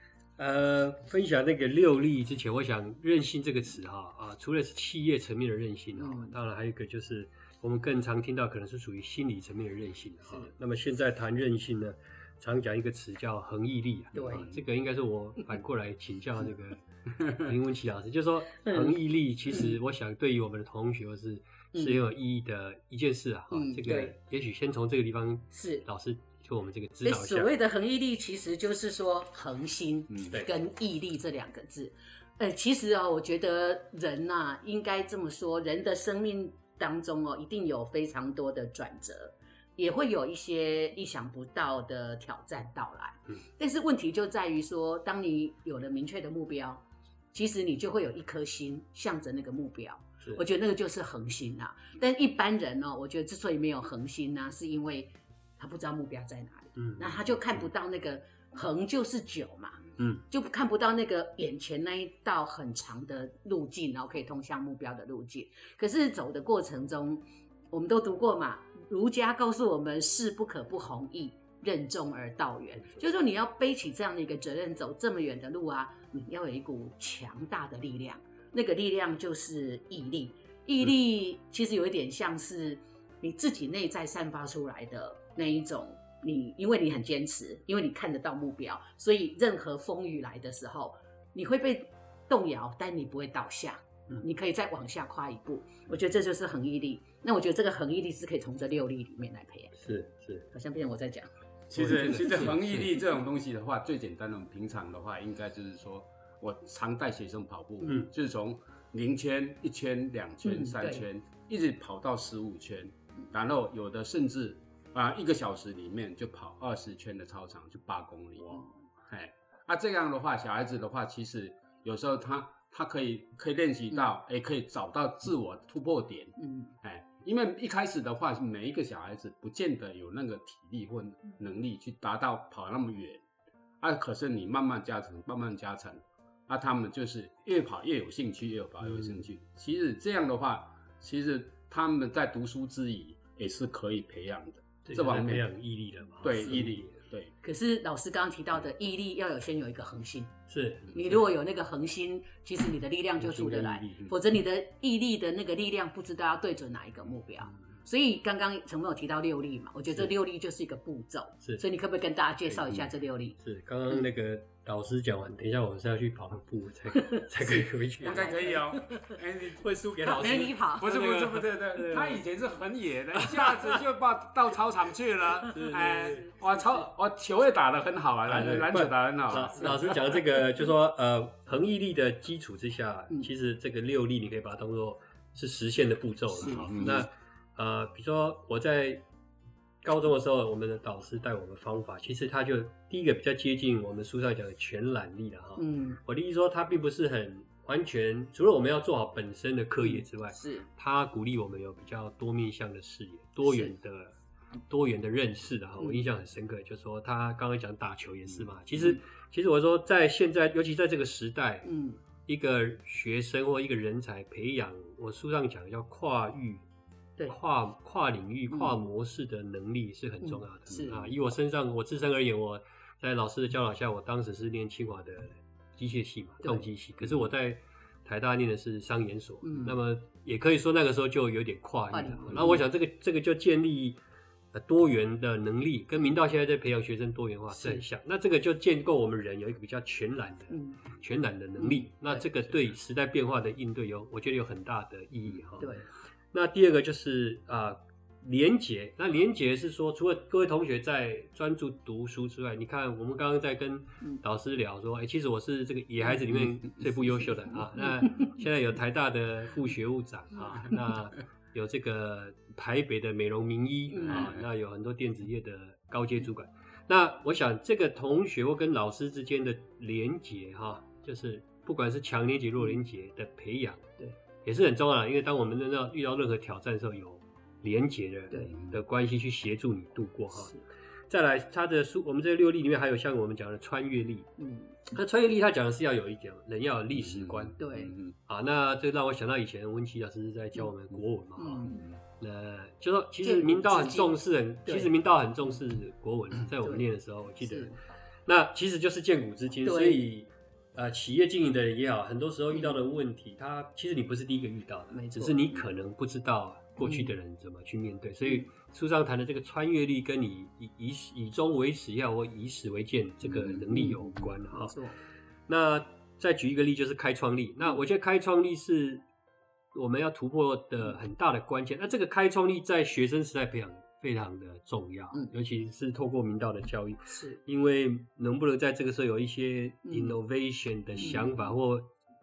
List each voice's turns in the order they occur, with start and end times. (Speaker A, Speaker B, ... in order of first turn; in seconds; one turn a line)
Speaker A: 0.4-27.5
Speaker B: 6.0-6.3
Speaker B: 14.1-14.5
Speaker B: 18.6-19.0
Speaker B: 21.7-22.0
Speaker B: 23.5-24.2
Speaker B: 25.5-25.9
Speaker B: 27.0-46.8
Speaker B: 47.3-99.8
Speaker A: 56.8-57.2
Speaker A: 99.8-100.5
Speaker B: 100.5-101.3
Speaker C: 101.7-133.2
Speaker A: 101.7-102.8
Speaker B: 110.4-111.0
Speaker B: 126.4-126.7
Speaker C: 133.8-145.5
Speaker A: 144.8-146.9
Speaker C: 146.2-147.3
Speaker B: 147.4-150.3
Speaker A: 150.5-150.9
Speaker B: 150.9-163.4
Speaker A: 153.2-154.1
Speaker A: 162.5-168.5
Speaker B: 167.0-169.2
Speaker C: 168.0-179.9
Speaker A: 169.6-172.2
Speaker B: 170.0-170.9
Speaker A: 173.3-173.6
Speaker A: 175.5-176.3
Speaker A: 178.2-189.0
Speaker B: 186.4-186.7
Speaker C: 186.5-187.0
Speaker A: 189.8-204.1
Speaker B: 195.6-196.0
Speaker B: 199.8-200.7
Speaker B: 203.4-203.7
Speaker A: 204.7-211.7
Speaker B: 205.8-206.1
Speaker B: 211.7-212.0
Speaker A: 212.2-216.6
Speaker A: 217.3-234.0
Speaker B: 218.5-218.8
Speaker B: 220.2-221.0
Speaker B: 229.4-229.7
Speaker B: 231.9-232.6
Speaker A: 234.5-273.9
Speaker B: 237.5-237.8
Speaker B: 240.5-240.8
Speaker B: 241.6-242.5
Speaker B: 245.6-245.9
Speaker B: 263.9-264.3
Speaker A: 274.4-280.5
Speaker B: 280.3-280.6
Speaker A: 281.1-284.3
Speaker B: 284.4-284.9
Speaker A: 284.9-287.6
Speaker C: 287.1-288.1
Speaker B: 287.6-287.9
Speaker A: 288.2-297.7
Speaker B: 291.4-291.8
Speaker B: 293.2-294.9
Speaker B: 297.4-297.8
Speaker A: 298.3-314.7
Speaker B: 299.6-300.1
Speaker B: 302.5-302.8
Speaker B: 304.9-305.6
Speaker B: 306.8-307.1
Speaker B: 313.7-314.9
Speaker A: 315.5-319.0
Speaker A: 319.7-331.9
Speaker B: 327.1-327.4
Speaker B: 329.8-330.2
Speaker B: 330.9-331.3